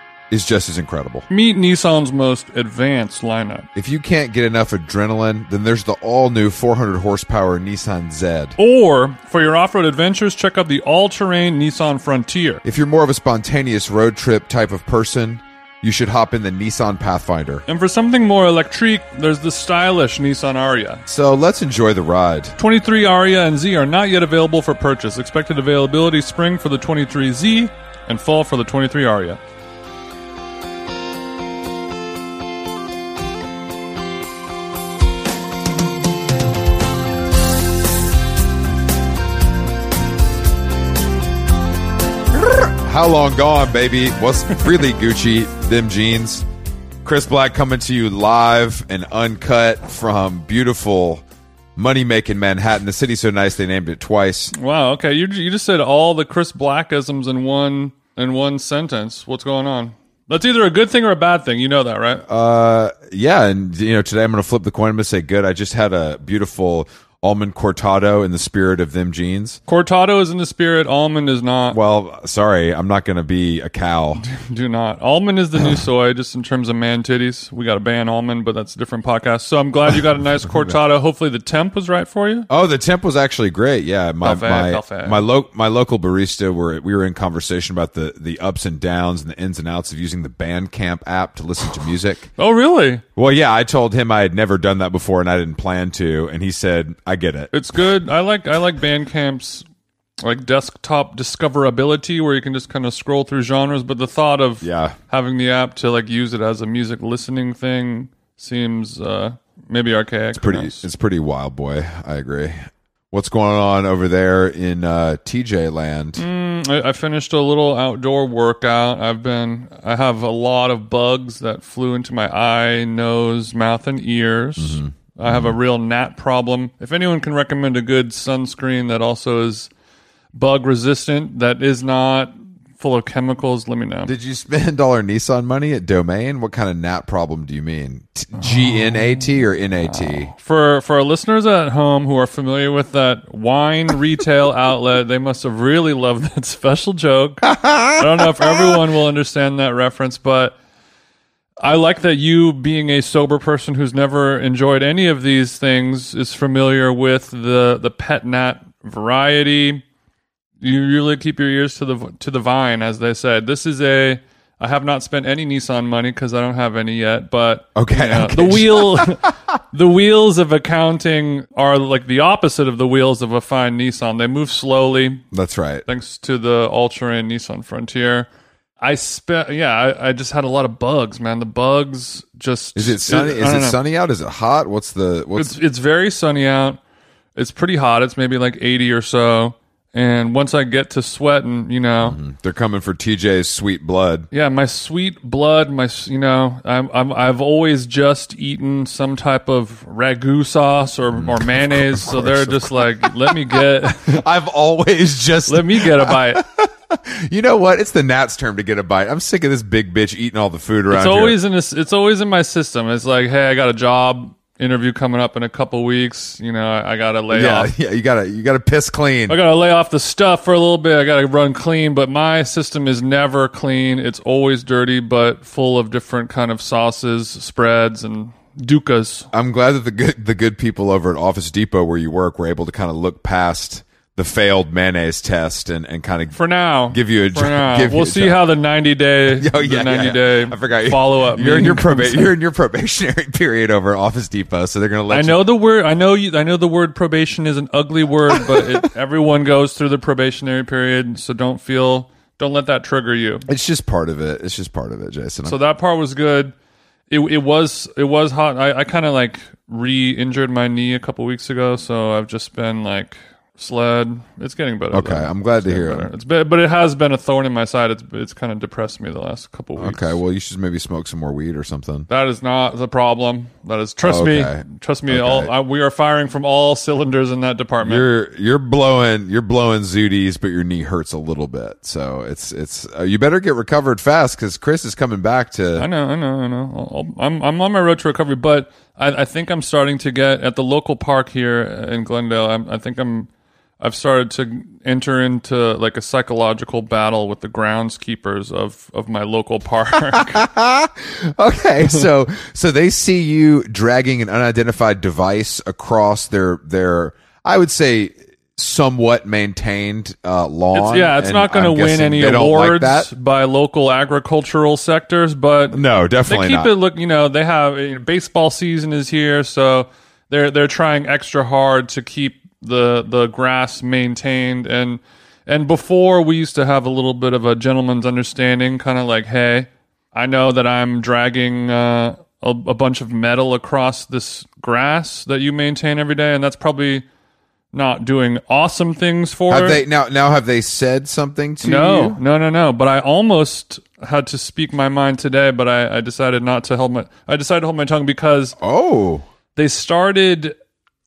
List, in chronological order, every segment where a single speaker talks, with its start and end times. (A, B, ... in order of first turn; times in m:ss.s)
0:00.3-0:01.2 A
0:01.3-0:03.7 B
0:03.7-0:08.5 A
0:08.6-0:12.6 B
0:12.6-0:17.6 A
0:17.7-0:21.0 B
0:21.1-0:22.5 A
0:22.6-0:29.4 B
0:42.4-0:46.4 A
0:47.0-0:51.2 A
0:51.8-0:54.5 A
0:54.5-1:02.2 B
1:02.3-1:09.6 A
1:09.7-1:11.8 B
1:11.7-1:14.2 A
1:14.3-1:22.5 B
1:22.5-1:32.3 A
1:24.2-1:25.2 B
1:32.4-1:33.0 B
1:33.2-1:37.5 A
1:37.5-1:39.6 B
1:40.2-1:50.8 B
1:44.6-1:45.0 A
1:50.4-1:56.2 A
1:56.2-2:09.7 B
2:04.6-2:05.6 A
2:10.3-2:14.1 B
2:14.0-2:20.3 A
2:18.4-2:30.5 B
2:27.4-2:28.6 A
2:31.6-2:39.8 B
2:40.6-2:55.2 B
2:47.8-2:49.3 A
2:55.3-2:55.8 A
2:55.9-2:58.3 B
2:58.8-3:03.8 B
3:02.8-3:05.5 A
3:05.4-3:06.8 B
3:07.4-3:12.2 B
3:12.0-3:14.3 A
3:14.3-3:24.2 B
3:21.1-3:31.4 A
3:25.5-3:26.4 B
3:30.9-3:37.7 B
3:37.3-3:39.4 A
3:39.3-3:49.3 B
3:49.3-3:56.4 A
3:56.3-4:02.3 B
3:56.9-3:58.4 A
3:59.4-4:05.4 A
4:05.1-4:13.4 B
4:08.4-4:08.8 A
4:13.5-4:15.6 A
4:15.4-4:16.5 B
4:17.1-4:30.2 B
4:24.9-4:26.1 A
4:29.8-4:32.0 A
4:32.1-4:38.0 B
4:34.0-4:35.5 A
4:37.8-4:45.8 A
4:45.8-4:53.3 B
4:53.8-5:00.4 B
5:00.1-5:13.1 A
5:10.7-5:37.0 B
5:15.7-5:16.7 A
5:37.7-5:39.8 B
5:39.5-5:42.2 A
5:41.6-5:48.6 B
5:48.6-5:49.2 A
5:49.6-5:50.5 B